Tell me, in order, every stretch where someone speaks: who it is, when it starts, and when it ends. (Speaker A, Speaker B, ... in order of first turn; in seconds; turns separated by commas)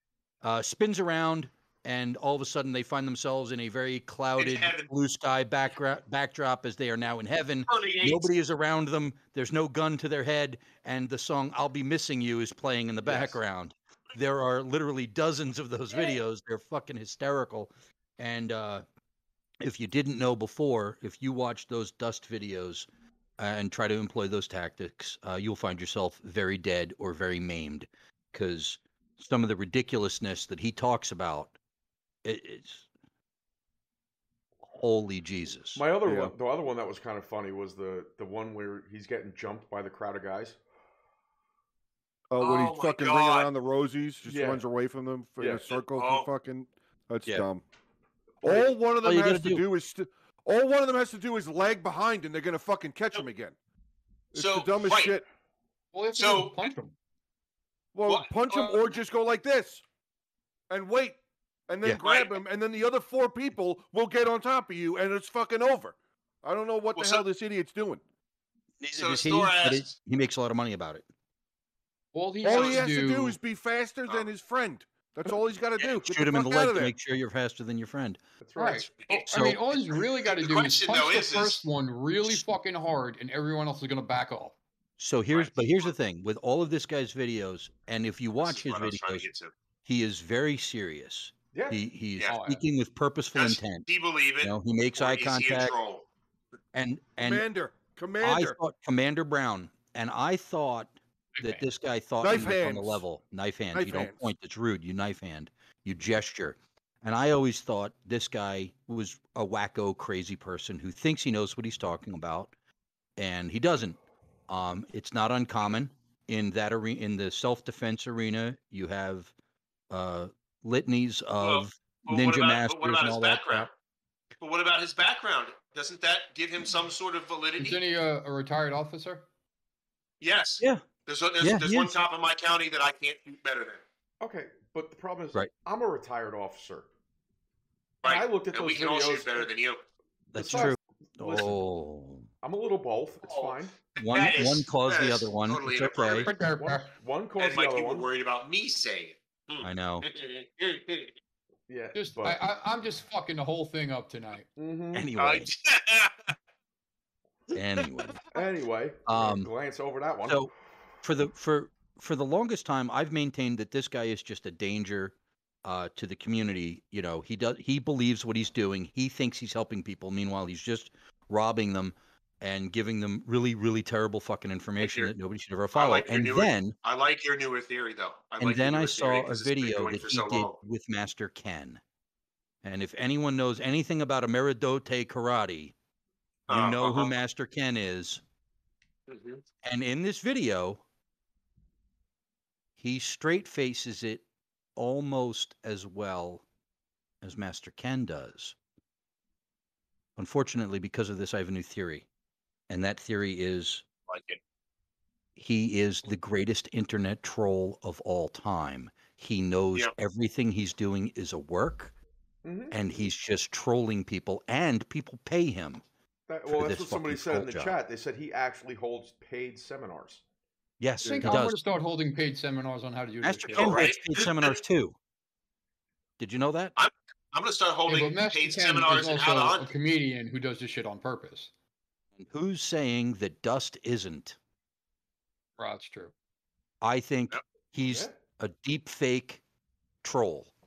Speaker A: 0.4-18.9, Speaker B: 4.4-4.9, Speaker B: 7.7-8.3, Speaker C: 13.0-13.4, Speaker A: 19.6-22.9, Speaker A: 23.4-31.6, Speaker A: 32.2-32.9, Speaker A: 34.7-35.9, Speaker C: 35.8-40.6, Speaker D: 36.0-36.3, Speaker D: 42.3-47.6, Speaker B: 42.4-43.5, Speaker C: 44.2-44.6, Speaker C: 45.4-45.6, Speaker B: 45.7-46.3, Speaker D: 48.4-53.6, Speaker A: 49.0-49.6, Speaker D: 54.3-55.3, Speaker B: 54.4-55.1, Speaker E: 55.9-57.0, Speaker B: 56.2-56.7, Speaker D: 57.9-59.8, Speaker B: 58.1-58.8, Speaker D: 60.7-68.0, Speaker B: 62.0-62.4, Speaker B: 67.0-67.2, Speaker A: 68.8-71.0, Speaker B: 69.0-70.0, Speaker E: 72.1-73.4, Speaker D: 72.4-76.9, Speaker B: 72.5-72.8, Speaker B: 75.8-76.0, Speaker A: 76.1-78.2, Speaker C: 78.4-78.9, Speaker E: 78.6-84.6, Speaker B: 79.0-79.3, Speaker A: 79.3-79.6, Speaker B: 80.2-81.6, Speaker A: 85.0-89.3, Speaker B: 85.3-85.9, Speaker B: 88.4-89.5, Speaker A: 89.8-93.9, Speaker C: 91.5-91.8, Speaker E: 92.3-92.6, Speaker B: 93.3-96.1, Speaker A: 94.4-95.7, Speaker A: 96.8-97.5, Speaker D: 97.2-98.6, Speaker A: 98.2-112.5, Speaker E: 101.4-101.7, Speaker D: 102.2-103.0, Speaker D: 103.7-104.2, Speaker A: 113.2-119.3, Speaker A: 119.9-123.7, Speaker B: 121.4-123.7, Speaker B: 124.4-127.8, Speaker E: 127.6-129.2, Speaker B: 130.2-133.8, Speaker A: 130.6-130.8, Speaker A: 131.4-132.0, Speaker C: 134.2-136.9, Speaker B: 138.0-139.8, Speaker C: 138.0-139.5, Speaker A: 140.3-142.3, Speaker C: 140.3-141.7, Speaker C: 142.4-143.8, Speaker B: 143.2-146.3, Speaker A: 144.0-146.3, Speaker E: 146.2-146.9, Speaker C: 146.4-148.1, Speaker B: 147.4-151.1, Speaker A: 149.6-150.1, Speaker C: 151.7-152.4, Speaker E: 151.9-154.5, Speaker C: 154.6-155.1, Speaker A: 154.9-155.5, Speaker B: 155.2-156.3, Speaker A: 157.5-158.3, Speaker C: 158.3-160.4, Speaker A: 159.1-159.5, Speaker A: 160.3-176.8, Speaker B: 174.8-175.1, Speaker B: 175.7-180.6, Speaker A: 178.4-181.8, Speaker A: 182.6-185.7, Speaker B: 186.5-187.2, Speaker A: 186.5-188.2, Speaker B: 189.1-189.4, Speaker A: 189.6-190.8, Speaker A: 192.8-194.2, Speaker A: 194.8-196.4, Speaker A: 197.2-198.6, Speaker A: 200.2-202.1, Speaker A: 202.7-203.8, Speaker B: 204.1-204.4, Speaker A: 205.4-211.9, Speaker C: 212.4-212.9, Speaker A: 212.7-215.8, Speaker C: 216.3-220.2, Speaker A: 216.5-217.8, Speaker A: 220.8-221.6, Speaker D: 221.0-221.3, Speaker E: 221.1-223.8, Speaker A: 223.2-225.0, Speaker B: 223.5-224.6, Speaker A: 226.2-226.8, Speaker B: 226.8-229.7, Speaker E: 227.9-231.5, Speaker A: 232.2-234.4, Speaker E: 235.6-236.1, Speaker A: 236.8-239.4, Speaker C: 237.8-238.2, Speaker A: 240.0-240.5